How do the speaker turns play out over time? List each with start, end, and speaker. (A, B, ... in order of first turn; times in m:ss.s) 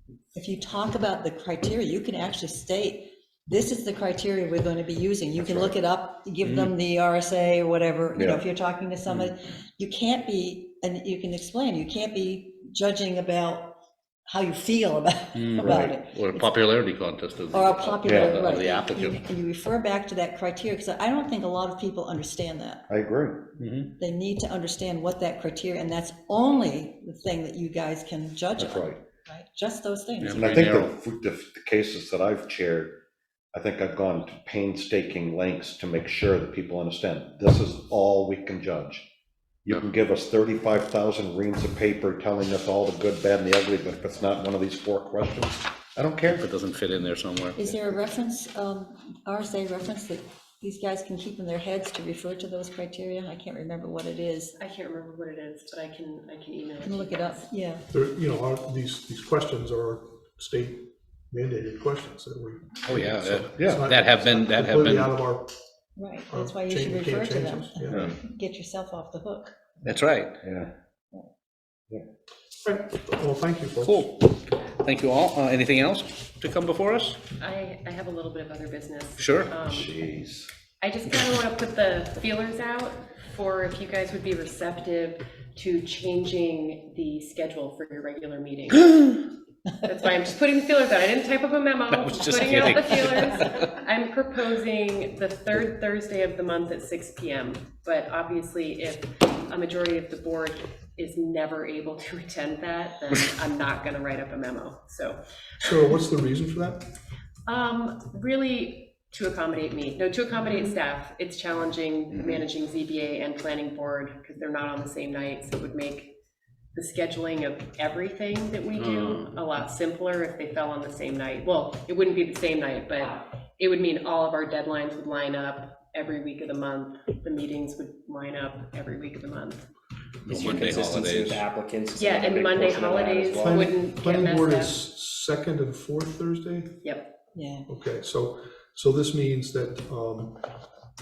0:00.3-0:13.8 A
0:05.4-0:05.7 B
0:06.4-0:06.7 C
0:08.2-0:08.4 B
0:14.3-0:16.5 A
0:15.3-0:19.2 C
0:15.6-0:15.9 B
0:17.5-0:22.9 A
0:18.1-0:18.4 B
0:22.9-0:23.5 B
0:23.6-0:23.9 C
0:24.0-0:30.5 A
0:28.6-0:29.0 B
0:30.2-0:30.9 C
0:30.4-0:33.0 B
0:33.5-0:39.1 B
0:39.7-0:46.4 B
0:46.3-0:47.6 C
0:47.6-0:54.6 A
0:54.6-0:57.5 D
0:56.8-0:57.9 A
0:57.9-1:05.5 E
1:02.9-1:05.2 C
1:06.0-1:09.5 A
1:06.3-1:08.1 E
1:09.8-1:10.4 C
1:10.4-1:10.7 B
1:12.6-1:14.1 E
1:13.8-1:17.2 C
1:17.4-1:19.9 D
1:19.2-1:19.5 C
1:19.6-1:20.5 B
1:20.8-1:29.2 D
1:29.8-1:45.2 D
1:31.9-1:33.8 C
1:45.6-1:46.9 E
1:47.5-1:56.1 D
1:52.1-1:52.4 C
1:56.7-2:09.7 D
1:58.8-1:59.3 C
2:10.2-2:13.8 F
2:10.3-2:11.4 C
2:12.0-2:14.8 D
2:13.4-2:16.8 E
2:16.8-2:17.1 D
2:17.3-2:17.7 A
2:17.7-2:20.4 E